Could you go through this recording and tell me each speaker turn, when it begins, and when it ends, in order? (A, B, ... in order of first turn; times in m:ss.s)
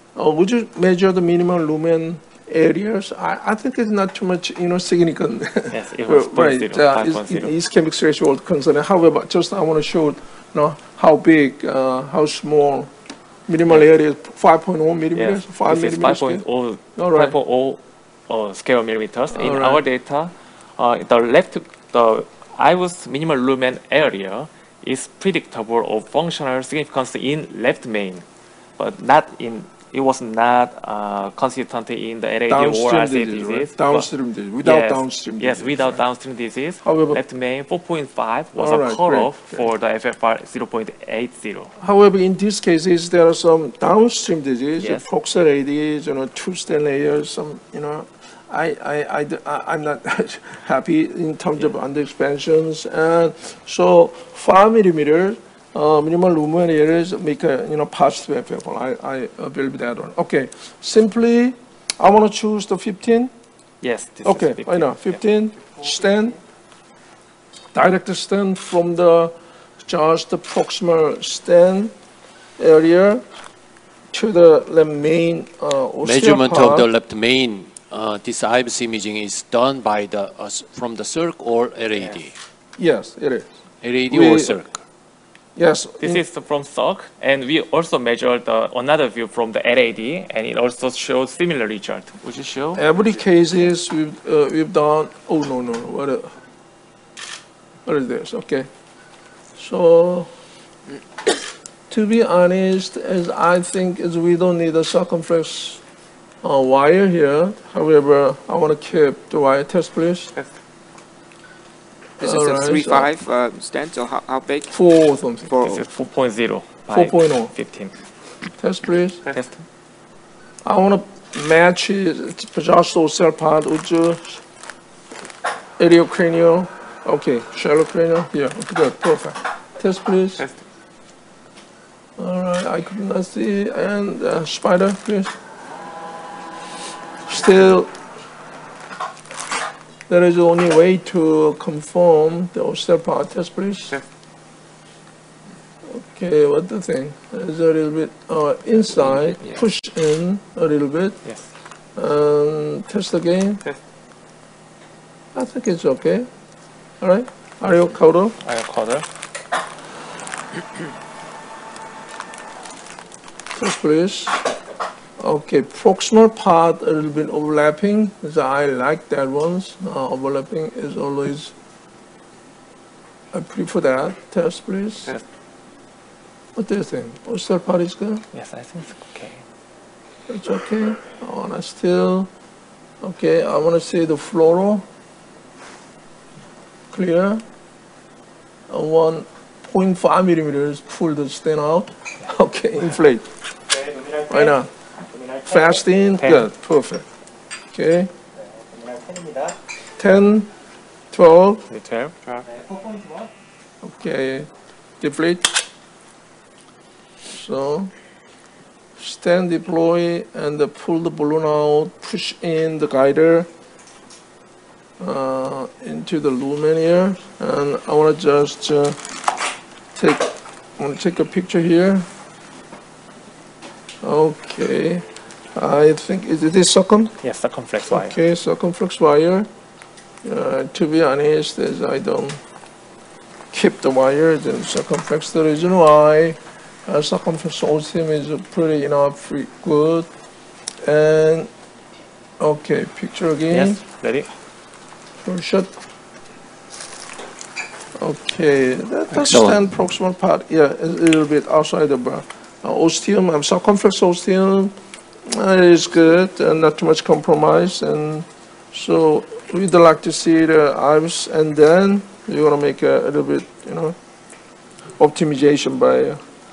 0:00.1-0:12.9 A
0:05.7-0:07.5 B
0:13.5-0:17.4 A
0:15.1-0:28.2 B
0:19.3-0:19.8 A
0:28.8-0:34.1 B
0:32.5-0:36.0 A
0:34.6-0:41.7 B
0:36.8-0:37.2 A
0:38.6-0:39.6 A
0:41.8-1:03.3 A
0:44.8-0:45.0 B
1:03.8-1:05.2 B
1:04.2-1:06.4 A
1:07.7-1:11.9 A
1:12.6-1:13.2 A
1:14.1-1:16.9 A
1:16.0-1:22.3 C
1:22.8-1:23.5 A
1:23.8-1:24.8 C
1:24.0-1:24.6 A
1:25.6-1:26.2 A
1:26.0-1:32.8 B
1:32.7-1:36.4 A
1:37.8-1:38.7 A
1:39.6-1:40.3 A
1:41.9-1:45.8 A
1:46.4-1:50.3 A
1:52.2-1:54.8 D
1:52.2-1:53.1 A
1:54.7-1:55.5 A
1:55.5-1:55.8 D
1:55.5-1:57.9 B
1:56.9-1:57.5 A
1:58.6-1:59.2 A
1:59.2-1:59.6 B
2:00.6-2:04.4 A
2:05.8-2:10.5 A
2:12.2-2:15.3 A
2:17.2-2:17.9 A
2:20.1-2:24.0 A
2:25.8-2:31.3 A
2:31.2-2:31.5 B
2:31.9-2:33.6 A
2:35.3-2:36.3 A
2:37.0-2:38.4 A
2:38.4-2:39.1 B
2:43.5-2:44.5 A
2:45.2-2:51.5 A
2:53.3-2:55.1 A
2:56.6-2:58.2 A
2:58.3-2:59.4 B
3:00.3-3:02.3 A
3:03.0-3:04.8 A
3:06.9-3:07.4 A
3:08.7-3:13.4 A
3:14.3-3:14.7 A
3:15.4-3:17.1 A
3:16.2-3:16.5 B
3:17.7-3:18.1 A
3:20.0-3:20.5 A
3:21.1-3:21.6 A
3:21.7-3:22.4 B
3:23.8-3:25.6 A
3:27.3-3:27.9 A
3:29.0-3:33.5 A
3:35.0-3:39.0 A
3:40.0-3:42.1 A
3:44.0-3:47.2 A
3:47.2-3:48.2 B
3:47.9-3:49.5 A
3:50.2-3:52.4 A
3:53.5-4:00.1 A
4:00.8-4:01.5 A
4:02.4-4:03.8 A
4:03.5-4:04.3 B
4:05.2-4:05.7 A
4:07.9-4:24.0 A
4:24.9-4:26.2 A